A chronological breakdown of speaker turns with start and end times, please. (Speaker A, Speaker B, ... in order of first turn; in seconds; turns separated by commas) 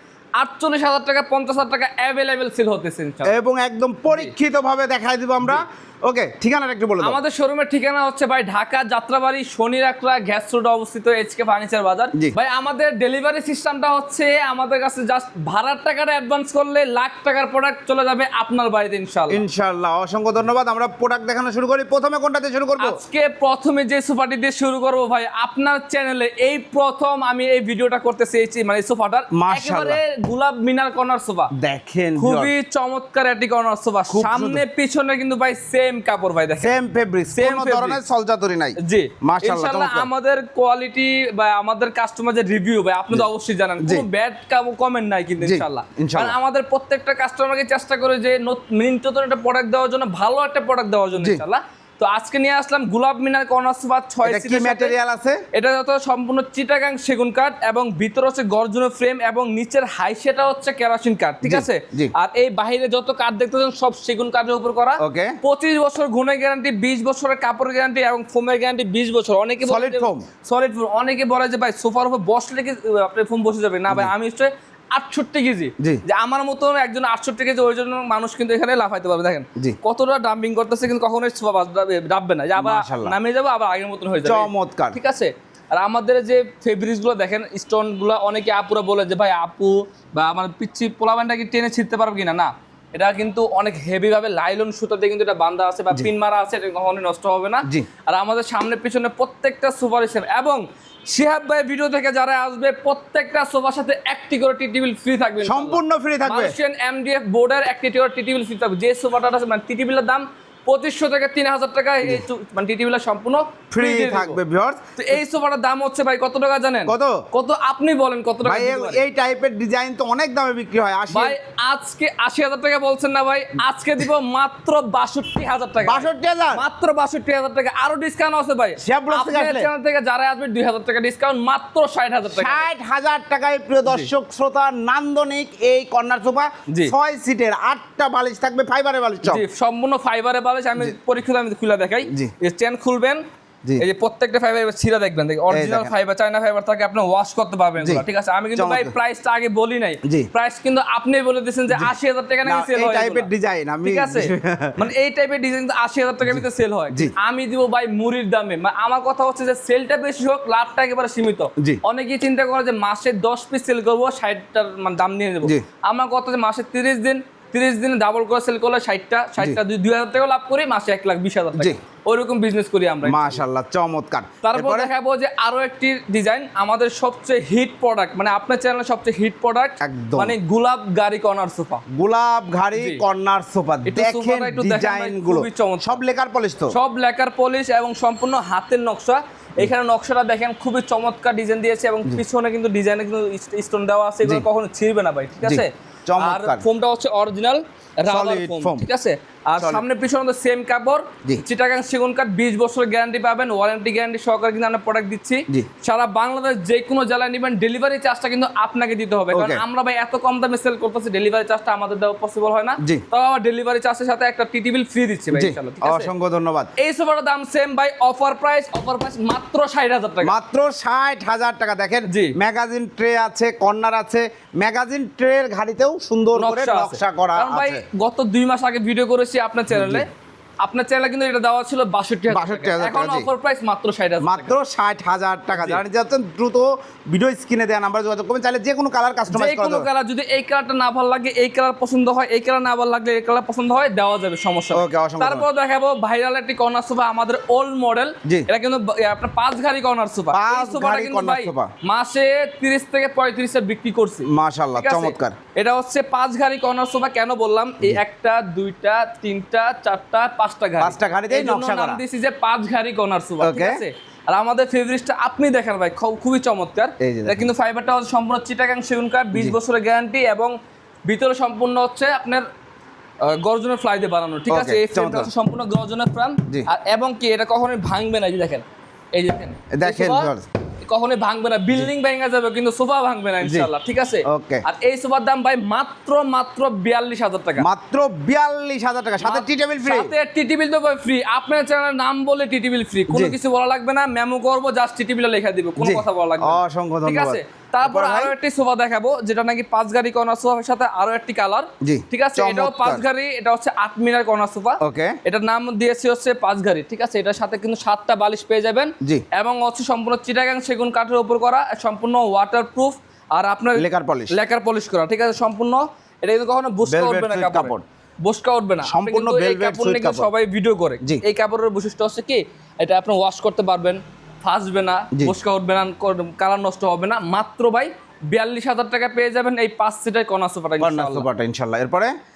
Speaker A: 0.4-3.4, Speaker B: 3.2-7.2, Speaker A: 4.1-4.3, Speaker A: 7.0-19.4, Speaker B: 19.3-23.0, Speaker A: 22.8-31.5, Speaker B: 29.3-30.0, Speaker B: 31.5-32.5, Speaker A: 32.2-36.7, Speaker B: 34.1-34.6, Speaker B: 36.6-40.1, Speaker A: 37.3-38.0, Speaker A: 38.8-54.9, Speaker B: 43.8-44.1, Speaker B: 45.4-46.4, Speaker B: 51.2-51.4, Speaker B: 54.2-55.4, Speaker A: 55.5-114.4, Speaker B: 61.4-62.1, Speaker B: 65.0-65.4, Speaker B: 69.6-70.2, Speaker B: 82.6-83.1, Speaker B: 84.2-85.0, Speaker B: 105.4-106.6, Speaker B: 113.7-115.2, Speaker A: 115.0-119.0, Speaker B: 116.9-117.2, Speaker B: 118.4-121.3, Speaker A: 121.1-132.7, Speaker B: 125.8-126.6, Speaker B: 128.8-129.7, Speaker B: 132.3-139.4, Speaker A: 133.8-134.1, Speaker A: 136.7-136.9, Speaker A: 139.2-143.2, Speaker A: 143.8-153.3, Speaker B: 145.5-145.9, Speaker B: 147.8-148.9, Speaker B: 152.4-154.8, Speaker A: 153.8-173.4, Speaker B: 156.2-157.1, Speaker B: 173.0-174.9, Speaker A: 174.4-181.8, Speaker B: 179.8-180.3, Speaker B: 181.9-186.7, Speaker A: 182.8-183.0, Speaker A: 183.8-186.0, Speaker A: 186.7-216.1, Speaker B: 195.4-196.6, Speaker B: 198.1-198.9, Speaker B: 199.6-199.8, Speaker B: 209.3-209.6, Speaker B: 215.3-216.7, Speaker A: 216.8-220.3, Speaker B: 220.2-227.8, Speaker A: 222.1-222.3, Speaker A: 226.3-230.1, Speaker B: 229.7-230.0, Speaker A: 230.6-234.5, Speaker B: 232.3-233.3, Speaker B: 234.2-239.9, Speaker A: 235.5-235.8, Speaker A: 239.3-270.5, Speaker B: 244.7-245.4, Speaker B: 250.3-251.7, Speaker B: 254.2-255.3, Speaker B: 260.8-262.0, Speaker B: 263.4-263.8, Speaker B: 267.0-267.5, Speaker A: 271.1-272.4, Speaker A: 273.2-280.3, Speaker B: 274.5-275.3, Speaker B: 279.7-280.5, Speaker A: 280.9-287.6, Speaker B: 283.4-283.7, Speaker B: 284.2-284.6, Speaker B: 287.6-290.1, Speaker A: 289.2-331.2, Speaker B: 293.1-293.4, Speaker B: 295.8-298.3, Speaker B: 301.8-303.0, Speaker B: 304.8-305.2, Speaker B: 313.8-314.4, Speaker B: 316.8-317.8, Speaker B: 318.8-320.3, Speaker B: 330.8-332.1